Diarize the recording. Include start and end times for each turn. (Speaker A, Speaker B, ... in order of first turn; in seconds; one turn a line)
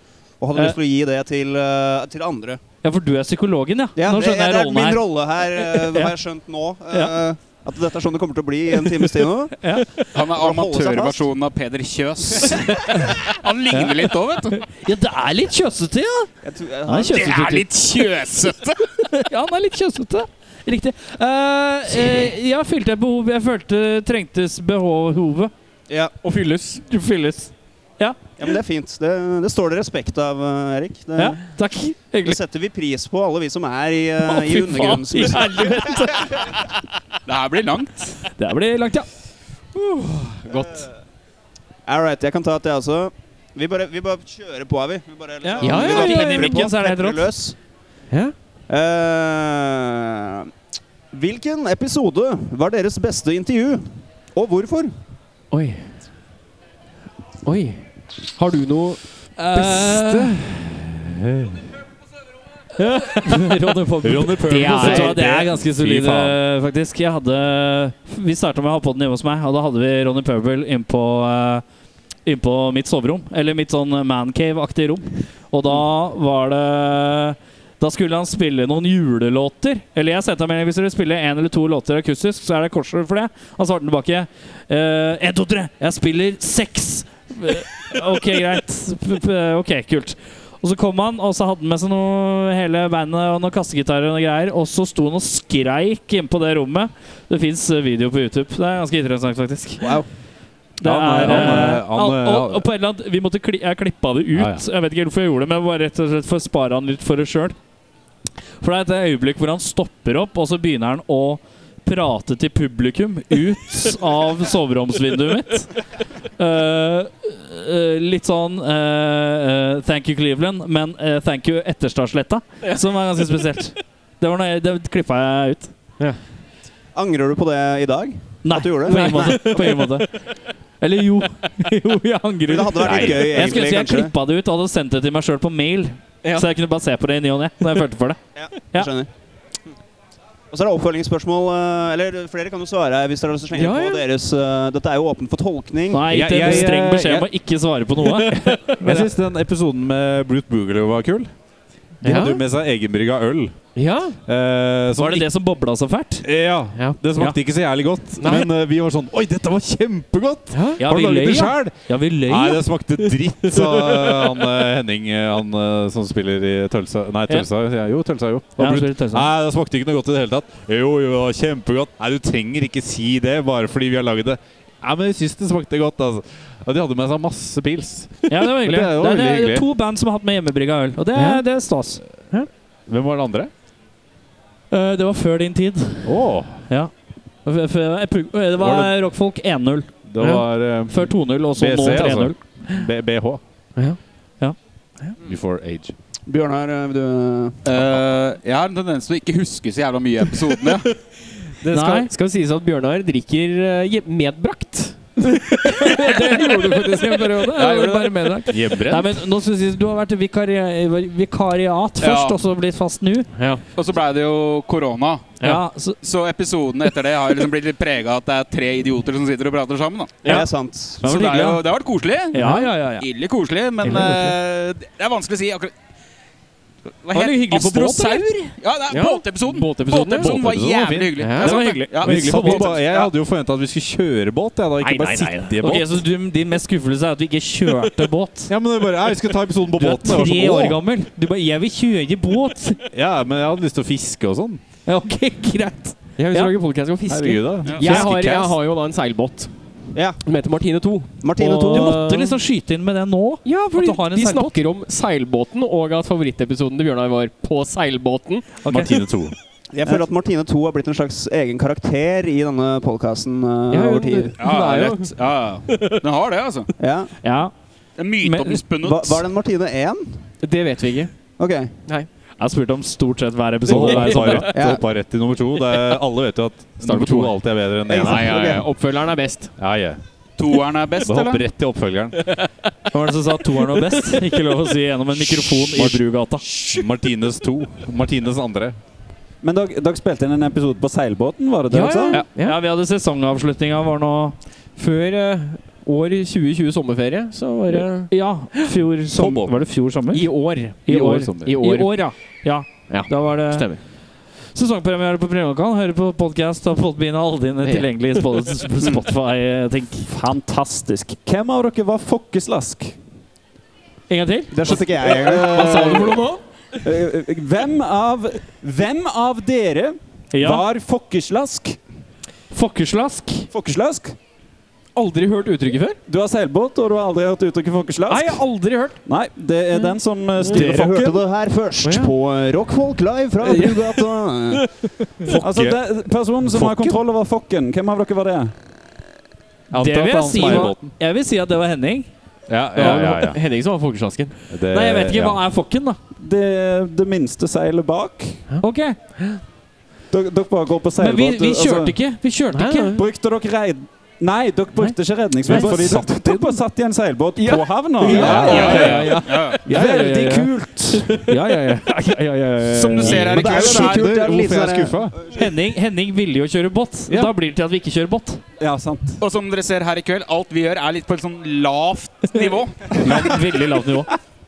Speaker A: 0.4-2.6
Speaker B: 2.8-6.1
Speaker A: 4.0-9.6
Speaker B: 9.6-9.9
Speaker C: 10.1-14.6
Speaker A: 10.3-11.2
Speaker B: 14.6-16.3
Speaker A: 16.4-17.3
Speaker B: 16.9-17.6
Speaker C: 17.1-18.8
Speaker B: 19.1-25.5
Speaker D: 26.2-26.8
Speaker B: 26.8-28.2
Speaker A: 28.4-31.4
Speaker B: 31.1-32.4
Speaker A: 32.2-36.0
Speaker B: 34.2-36.5
Speaker C: 37.2-38.1
Speaker B: 38.4-39.1
Speaker D: 40.3-40.8
Speaker A: 40.5-40.9
Speaker A: 41.9-47.5
Speaker B: 45.4-47.2
Speaker D: 45.6-46.6
Speaker A: 48.7-50.5
Speaker A: 51.1-54.9
Speaker D: 55.5-55.8
Speaker D: 57.4-57.8
Speaker D: 58.3-60.0
Speaker B: 59.4-60.4
Speaker E: 59.9-61.6
Speaker B: 62.8-71.6
Speaker E: 64.0-66.4
Speaker D: 64.6-65.2
Speaker B: 72.2-99.9
Speaker E: 99.8-100.0
Speaker E: 100.8-102.7
Speaker B: 100.8-107.5
Speaker E: 104.3-104.6
Speaker B: 108.6-115.7
Speaker B: 116.4-125.7
Speaker A: 126.9-129.6
Speaker B: 128.4-130.1
Speaker D: 128.9-129.6
Speaker B: 130.8-138.2
Speaker A: 132.4-134.1
Speaker E: 132.8-133.6
Speaker A: 138.3-139.1
Speaker A: 140.5-146.5
Speaker D: 143.5-144.0
Speaker B: 145.9-149.1
Speaker E: 146.1-147.3
Speaker D: 148.0-148.8
Speaker E: 148.8-151.3
Speaker E: 152.0-153.6
Speaker D: 152.0-152.4
Speaker D: 153.7-154.2
Speaker E: 154.3-155.2
Speaker B: 155.0-156.2
Speaker E: 156.2-179.7
Speaker D: 156.8-157.0
Speaker D: 158.2-158.5
Speaker D: 160.5-160.8
Speaker B: 160.8-162.6
Speaker D: 163.5-164.4
Speaker B: 168.6-169.2
Speaker B: 178.3-182.0
Speaker D: 181.1-181.4
Speaker E: 182.9-183.5
Speaker B: 184.7-186.9
Speaker E: 186.0-186.6
Speaker B: 187.4-189.9
Speaker E: 188.6-188.9
Speaker E: 190.1-193.4
Speaker D: 190.2-190.4
Speaker B: 190.9-192.3
Speaker E: 195.2-195.9
Speaker A: 196.3-197.6
Speaker C: 197.6-200.8
Speaker D: 201.6-208.5
Speaker B: 201.7-202.1
Speaker B: 205.2-213.3
Speaker E: 208.5-209.2
Speaker C: 212.0-212.4
Speaker D: 213.3-213.6
Speaker C: 213.8-215.4
Speaker B: 215.4-216.0
Speaker C: 216.0-220.3
Speaker A: 220.2-221.3
Speaker C: 221.0-225.7
Speaker B: 221.0-221.6
Speaker B: 222.3-223.1
Speaker D: 222.4-222.6
Speaker D: 223.8-224.3
Speaker C: 227.0-233.1
Speaker B: 227.1-228.2
Speaker D: 228.9-230.3
Speaker E: 230.2-236.0
Speaker D: 231.2-232.8
Speaker B: 231.4-232.6
Speaker B: 234.8-238.5
Speaker E: 238.5-240.8
Speaker B: 239.7-242.8
Speaker E: 242.9-244.6
Speaker B: 244.8-246.5
Speaker D: 246.2-249.5
Speaker E: 247.1-248.5
Speaker C: 247.6-248.0
Speaker D: 250.2-252.4
Speaker A: 251.2-252.0
Speaker B: 251.4-254.6
Speaker D: 253.4-258.6
Speaker B: 258.6-258.9
Speaker E: 258.6-259.4
Speaker A: 259.7-264.4
Speaker D: 263.7-265.1
Speaker C: 264.4-266.7
Speaker D: 265.7-266.0
Speaker A: 266.8-267.1
Speaker B: 267.2-267.5
Speaker C: 268.0-269.2
Speaker B: 268.2-268.6
Speaker A: 268.8-270.2
Speaker D: 270.4-271.1
Speaker A: 271.4-271.7
Speaker B: 272.4-274.5
Speaker D: 273.7-274.6
Speaker E: 273.7-278.6
Speaker A: 274.5-274.8
Speaker D: 275.6-276.0
Speaker D: 276.8-279.6
Speaker A: 277.9-278.6
Speaker E: 279.6-280.0
Speaker C: 280.4-281.4
Speaker E: 281.0-282.2
Speaker D: 282.2-282.5
Speaker B: 282.9-286.4
Speaker D: 283.8-284.2
Speaker E: 285.5-286.0
Speaker E: 286.6-288.8
Speaker F: 289.4-292.2
Speaker D: 291.7-292.6
Speaker B: 292.1-294.3
Speaker D: 294.8-298.7
Speaker B: 297.7-300.3
Speaker E: 299.1-299.5
Speaker D: 300.1-302.0
Speaker B: 300.9-303.7
Speaker E: 300.9-301.5
Speaker D: 302.9-303.8
Speaker B: 304.5-310.1
Speaker D: 307.6-308.2
Speaker F: 310.1-312.9
Speaker B: 314.1-314.7
Speaker A: 314.5-316.1
Speaker D: 314.7-316.4
Speaker F: 315.1-316.3
Speaker F: 316.8-321.8
Speaker B: 320.3-320.6
Speaker B: 322.5-323.5
Speaker F: 323.5-324.1
Speaker D: 324.9-326.0
Speaker F: 326.1-328.4
Speaker D: 328.1-329.0
Speaker F: 329.1-331.2
Speaker D: 329.8-330.7
Speaker A: 330.4-334.6
Speaker D: 331.8-332.1
Speaker D: 333.4-335.4
Speaker E: 335.3-335.8
Speaker F: 335.4-338.5
Speaker E: 336.5-336.9
Speaker E: 339.7-340.9
Speaker B: 339.7-342.1
Speaker E: 342.5-343.4
Speaker D: 342.7-344.4
Speaker E: 344.5-345.4
Speaker B: 344.7-346.0
Speaker F: 346.2-348.4
Speaker B: 348.6-349.0
Speaker F: 350.1-351.9
Speaker B: 351.0-352.9
Speaker D: 352.2-353.0
Speaker F: 352.9-358.9
Speaker D: 355.5-355.9
Speaker B: 355.5-356.5
Speaker D: 357.4-361.4
Speaker B: 358.1-360.4
Speaker E: 358.1-359.0
Speaker C: 358.4-359.6
Speaker F: 359.6-361.1
Speaker B: 361.3-363.2
Speaker C: 362.6-364.2
Speaker E: 363.0-365.2
Speaker A: 363.1-365.4
Speaker B: 365.3-368.4
Speaker F: 368.6-369.2
Speaker C: 369.2-373.1
Speaker B: 372.9-374.1